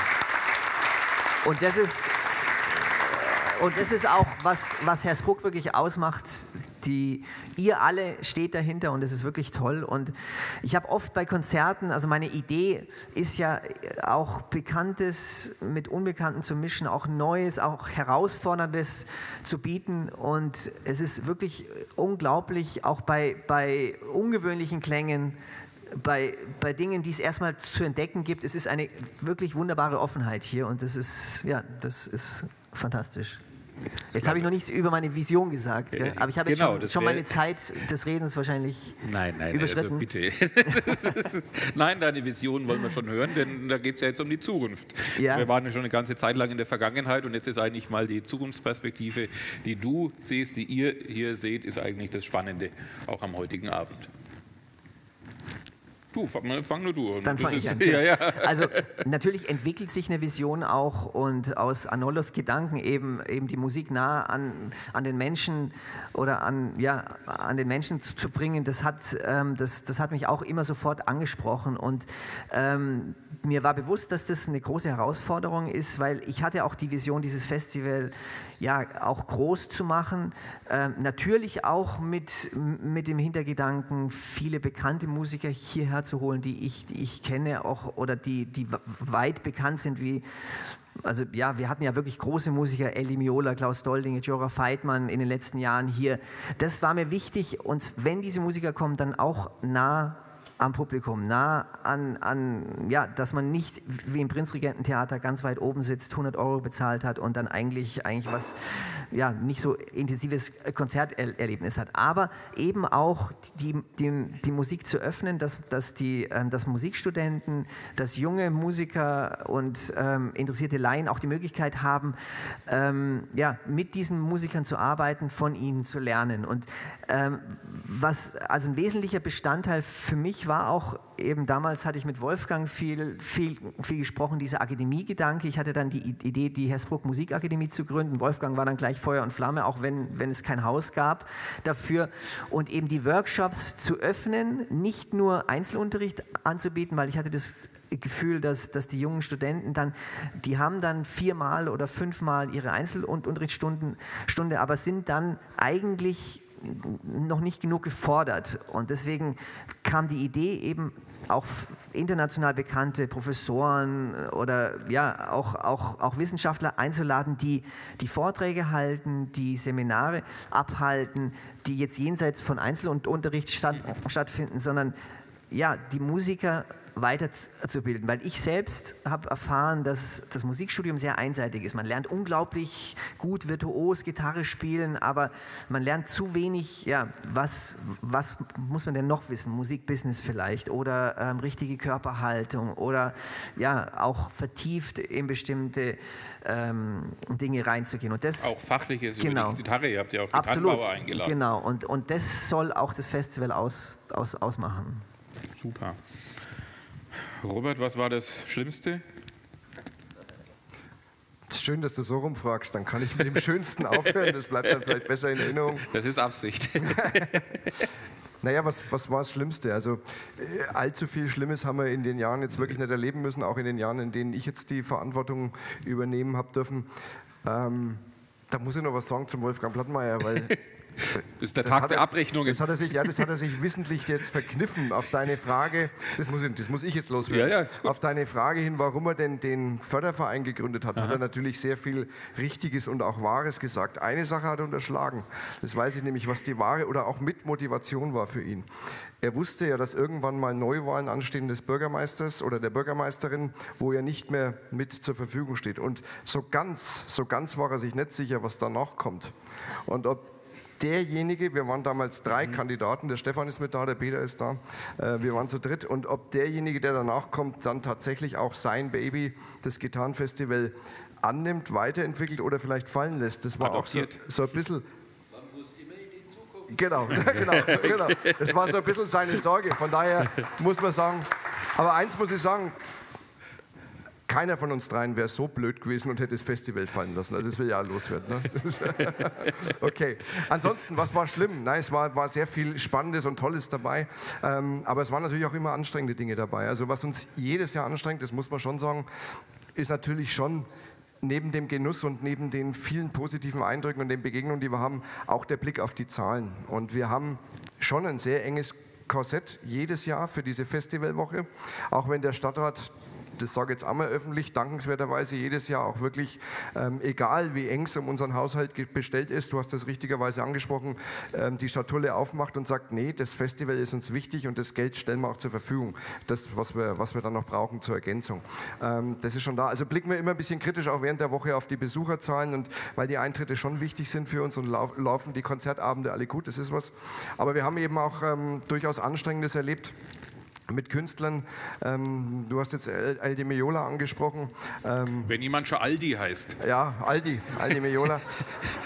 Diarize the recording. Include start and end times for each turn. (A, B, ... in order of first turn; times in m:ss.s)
0:01.4-0:25.4 A
0:25.9-0:33.4 A
0:34.1-0:40.1 A
0:34.2-0:34.5 B
0:35.9-0:37.4 B
0:39.0-0:54.1 B
0:45.2-0:45.5 A
0:56.1-0:59.0 B
0:57.2-1:30.2 A
1:31.0-2:02.2 A
2:02.7-2:54.9 A
2:55.5-3:18.6 A
3:18.4-3:21.4 B
3:19.2-3:19.6 A
3:20.3-3:25.0 A
3:25.6-3:26.0 B
3:27.4-3:29.0 B
3:31.5-3:35.9 C
3:35.8-3:37.9 B
3:36.9-3:37.2 C
3:38.4-3:46.9 C
3:47.4-3:50.5 C
3:50.5-3:53.3 B
3:51.6-4:08.7 C
3:57.3-3:57.9 B
4:09.2-4:19.3 C
4:19.8-4:20.3 C
4:20.8-4:34.8 C
4:33.6-4:34.2 B
4:36.7-4:42.7 C
4:37.2-4:38.6 B
4:44.3-4:59.1 C
4:59.8-5:00.7 C
5:01.2-5:39.9 C
5:40.7-5:45.4 C
5:45.2-5:46.6 B
5:46.6-5:48.4 C